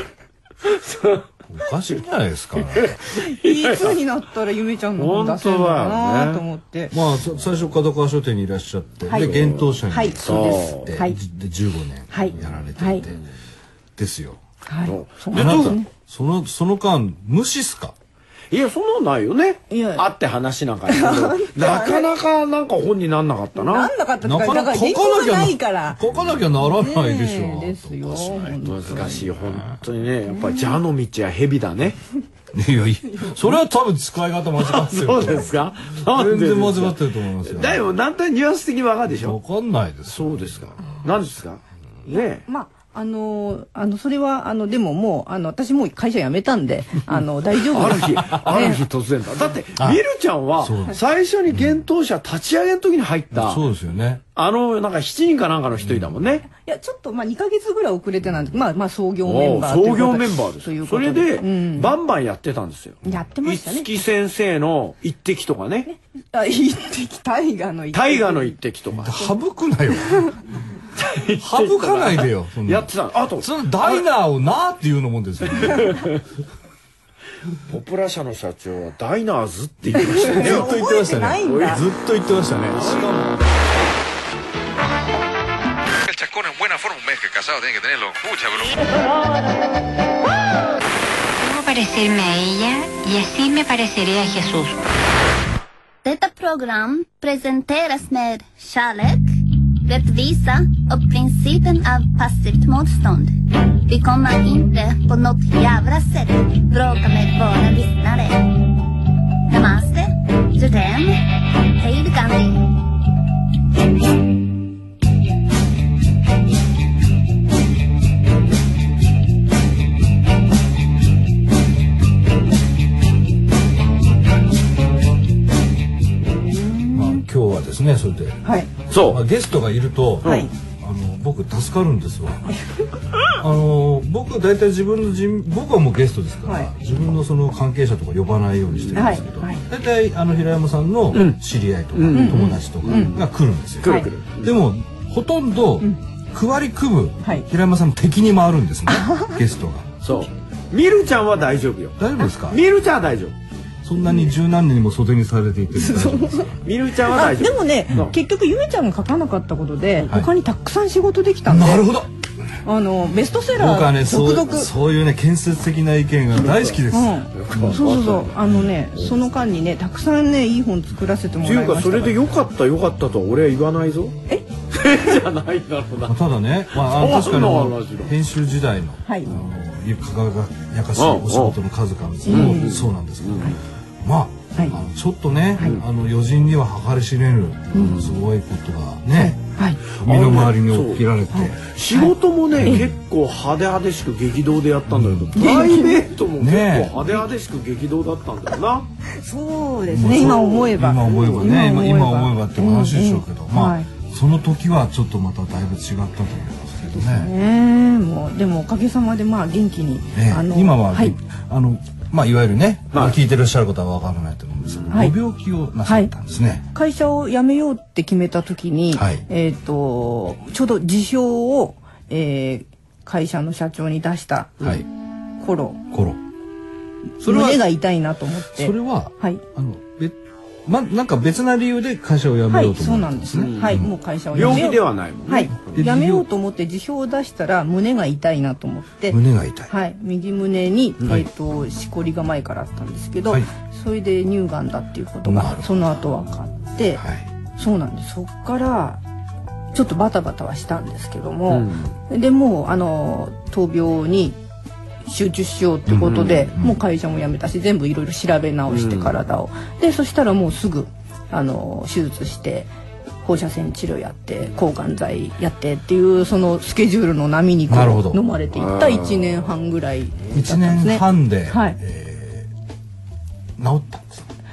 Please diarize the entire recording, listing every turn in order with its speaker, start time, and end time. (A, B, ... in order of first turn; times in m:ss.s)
0:00.6-0:01.3 A
0:01.5-0:03.0 B
0:02.6-0:04.0 A
0:03.1-0:06.9 C
0:05.0-0:06.4 A
0:06.9-0:13.2 B
0:09.1-0:09.3 C
0:09.1-0:11.0 A
0:09.9-0:11.2 C
0:12.1-0:13.0 C
0:12.3-0:13.2 A
0:14.0-0:14.4 B
0:14.7-0:15.9 C
0:14.9-0:15.8 A
0:15.4-0:18.0 B
0:18.5-0:23.9 A
0:19.7-0:20.1 C
0:20.9-0:22.1 C
0:23.6-0:26.0 C
0:24.2-0:29.8 B
0:26.6-0:29.3 C
0:28.5-0:32.0 A
0:30.3-0:30.8 C
0:32.5-0:37.8 B
0:34.6-0:39.4 A
0:39.2-0:41.3 B
0:40.1-0:42.4 A
0:42.1-0:48.8 C
0:47.7-0:53.6 A
0:49.8-0:50.0 B
0:50.6-0:51.0 B
0:51.5-0:51.8 B
0:53.3-0:54.2 B
0:54.4-0:56.5 A
0:55.8-0:56.3 B
0:56.6-1:02.0 C
0:59.2-1:05.9 A
1:03.0-1:03.9 C
1:05.8-1:08.6 C
1:07.9-1:09.3 A
1:09.0-1:10.4 B
1:10.0-1:10.4 C
1:10.9-1:14.1 A
1:11.4-1:16.1 B
1:15.4-1:16.2 A
1:17.7-1:20.9 A
1:20.0-1:21.8 C
1:20.1-1:23.2 B
1:21.4-1:21.8 A
1:22.7-1:23.4 A
1:26.0-1:29.0 D
1:31.4-1:34.8 E
1:36.0-1:39.3 F
1:39.9-1:43.3 F
1:43.9-1:48.6 F
1:49.5-1:51.3 F
1:51.8-1:52.7 F
2:06.5-2:07.2 C
2:06.9-2:08.4 B
2:08.4-2:08.7 C
2:08.9-2:09.2 A
2:09.1-2:12.5 B
2:10.2-2:10.5 A
2:10.2-2:10.5 C
2:12.5-2:12.9 C
2:13.4-2:30.0 B
2:16.5-2:16.7 C
2:18.8-2:19.0 A
2:19.0-2:19.6 C
2:21.1-2:21.4 A
2:21.9-2:23.3 A
2:22.1-2:23.2 C
2:23.8-2:24.6 A
2:28.9-2:29.4 C
2:30.0-2:33.4 A
2:32.0-2:32.6 B
2:33.8-2:36.6 B
2:35.7-2:36.5 C
2:36.6-2:38.1 A
2:37.1-2:41.9 C
2:41.5-2:42.1 B
2:42.6-2:44.7 C
2:43.5-2:47.9 B
2:46.3-2:48.5 A
2:46.9-2:52.2 C
2:51.4-2:54.2 A
2:54.7-2:56.2 A
2:56.0-3:11.6 B
2:56.8-2:58.2 A
3:01.0-3:01.6 A
3:02.3-3:02.8 C
3:02.3-3:03.6 A
3:07.8-3:08.2 A
3:09.1-3:09.8 C
3:09.9-3:11.0 A
3:11.3-3:12.9 C
3:11.6-3:18.9 A
3:12.6-3:12.8 B
3:14.9-3:15.4 B
3:15.4-3:16.1 C
3:16.4-3:17.0 B
3:19.2-3:23.9 C
3:19.9-3:27.3 B
3:20.0-3:21.5 A
3:26.9-3:31.2 C
3:30.1-3:36.6 B
3:32.9-3:33.2 A
3:34.9-3:35.2 C
3:35.8-3:36.1 C
3:36.7-3:44.6 C
3:39.0-3:39.2 B
3:45.4-3:45.8 C
3:45.9-3:46.2 B
3:47.2-3:49.4 C
3:47.2-3:47.6 B
3:48.5-3:54.7 B
3:52.5-4:07.0 C
3:53.4-3:55.9 A
3:55.7-3:56.2 B
3:59.1-3:59.7 B
4:05.2-4:06.0 B
4:07.0-4:07.3 B
4:07.6-4:09.0 C
4:09.7-4:14.4 C
4:11.5-4:12.0 A
4:15.0-4:22.7 C
4:15.9-4:16.8 B
4:16.1-4:16.5 A
4:18.7-4:19.1 A
4:23.2-4:31.8 C
4:27.7-4:28.2 B
4:28.5-4:29.4 A
4:30.3-4:32.5 B
4:33.6-4:34.3 B